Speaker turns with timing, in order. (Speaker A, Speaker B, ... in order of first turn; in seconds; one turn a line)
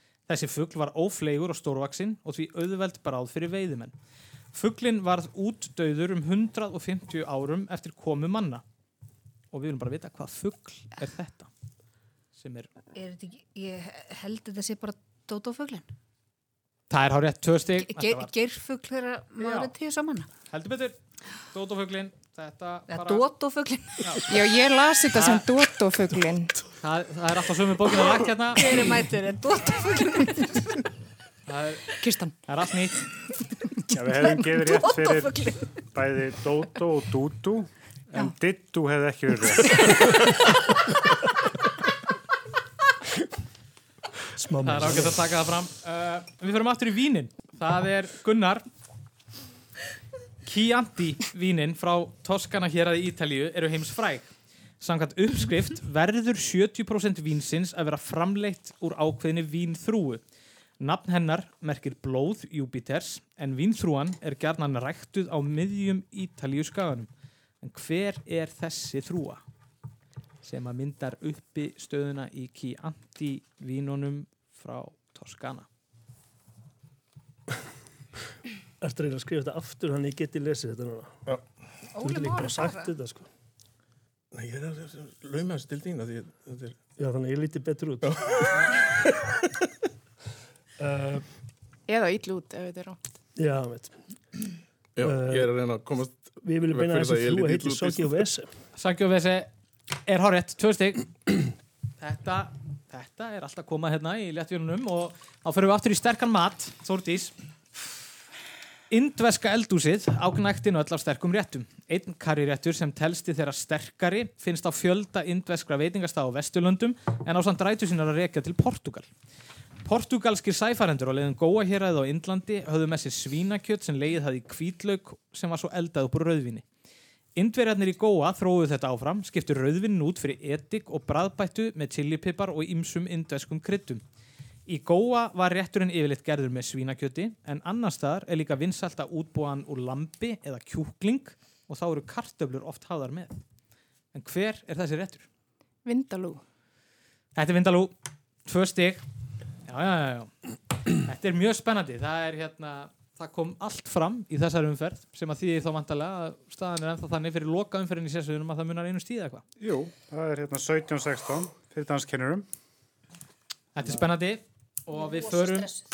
Speaker A: 0.3-3.9
Speaker A: 4.5-8.6
Speaker A: 9.5-11.5
Speaker A: 12.4-12.7
Speaker B: 12.9-15.9
Speaker A: 16.9-18.3
Speaker B: 17.8-20.3
Speaker A: 19.4-19.7
Speaker A: 20.5-21.0
Speaker A: 21.5-23.3
Speaker B: 22.9-24.4
Speaker A: 24.0-24.3
Speaker C: 24.2-26.6
Speaker A: 25.1-25.4
Speaker A: 26.8-28.6
Speaker B: 28.5-30.8
Speaker A: 31.5-31.9
Speaker C: 32.0-32.4
Speaker A: 32.5-33.1
Speaker D: 33.9-40.3
Speaker B: 34.7-35.5
Speaker E: 44.3-45.2
Speaker A: 44.6-48.6
Speaker A: 50.5-60.2
Speaker A: 60.8-67.1
Speaker A: 67.6-69.4
Speaker A: 70.4-75.7
Speaker E: 78.8-81.2
Speaker B: 81.9-82.9
Speaker E: 82.0-83.3
Speaker F: 84.3-86.8
Speaker E: 87.0-88.3
Speaker F: 88.0-89.1
Speaker E: 90.8-91.2
Speaker C: 91.9-93.0
Speaker E: 93.4-94.0
Speaker F: 95.0-98.3
Speaker E: 95.0-95.5
Speaker E: 96.4-98.5
Speaker A: 98.8-99.5
Speaker A: 100.1-101.1
Speaker A: 102.0-107.3
Speaker A: 108.9-119.1
Speaker A: 119.8-126.6
Speaker A: 127.3-134.0
Speaker A: 134.7-143.4
Speaker A: 144.1-145.3
Speaker C: 145.8-146.4
Speaker A: 147.3-147.9
Speaker A: 148.5-149.0
Speaker A: 149.7-150.3
Speaker A: 151.0-159.4
Speaker D: 159.6-162.5
Speaker A: 163.8-165.7
Speaker B: 165.0-165.7